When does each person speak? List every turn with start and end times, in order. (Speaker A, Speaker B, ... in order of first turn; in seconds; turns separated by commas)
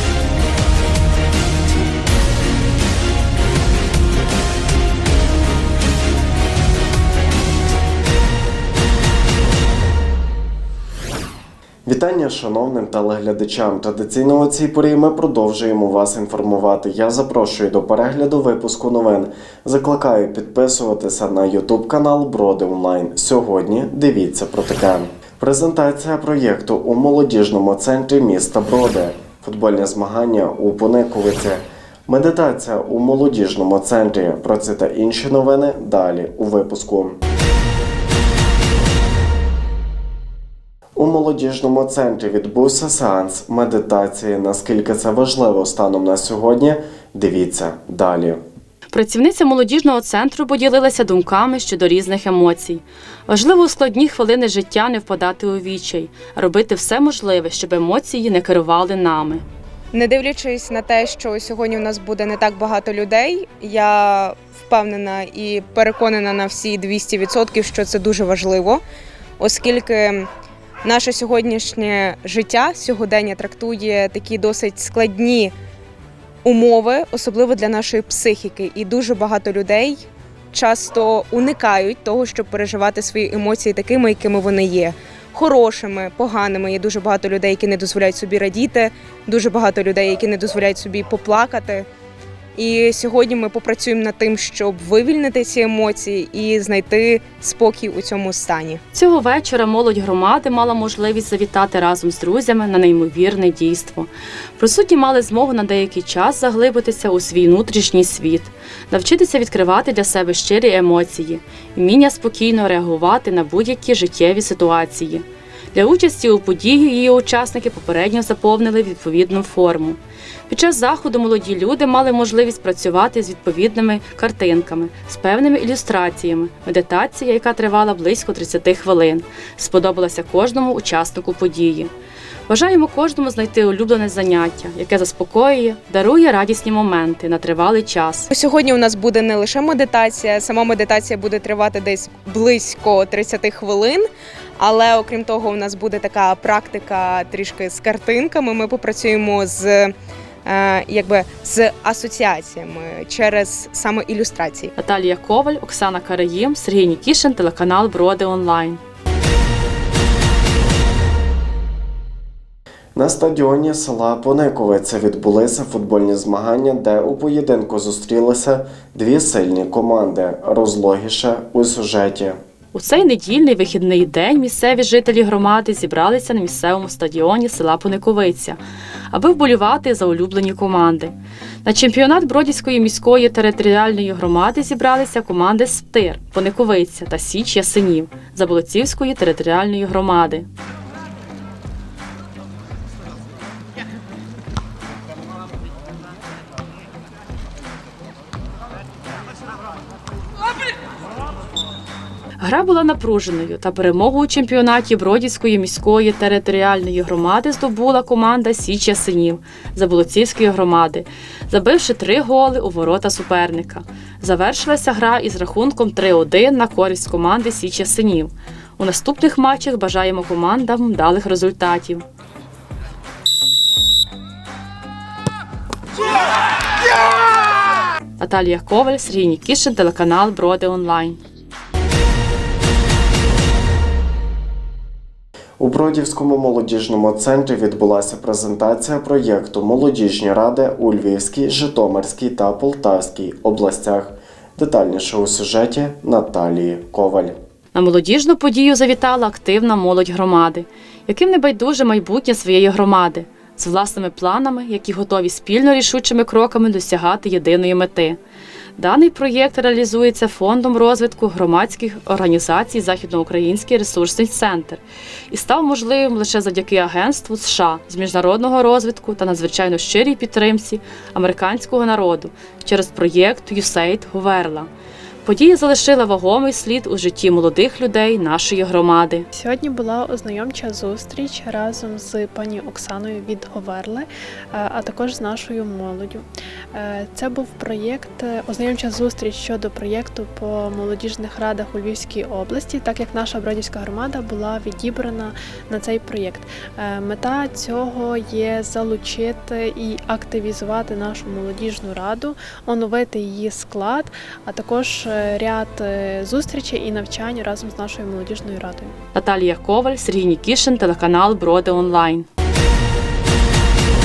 Speaker A: 11.8-37.2, Speaker A: 41.0-48.4, Speaker B: 48.9-59.4, Speaker C: 59.9-68.8, Speaker C: 69.4-70.3, Speaker C: 70.8-75.5, Speaker C: 76.5-91.9, Speaker C: 92.6-98.8, Speaker B: 98.9-131.9, Speaker B: 132.5-138.3, Speaker C: 138.3-144.1, Speaker C: 144.6-149.9, Speaker C: 150.4-154.7, Speaker B: 154.8-158.8, Speaker A: 162.9-172.4, Speaker B: 172.7-178.6, Speaker B: 179.1-190.5, Speaker B: 202.4-222.0, Speaker B: 228.2-231.2, Speaker A: 235.6-247.4, Speaker B: 247.7-258.2, Speaker B: 258.8-274.7, Speaker B: 275.2-279.3, Speaker D: 279.3-308.9, Speaker B: 309.1-312.3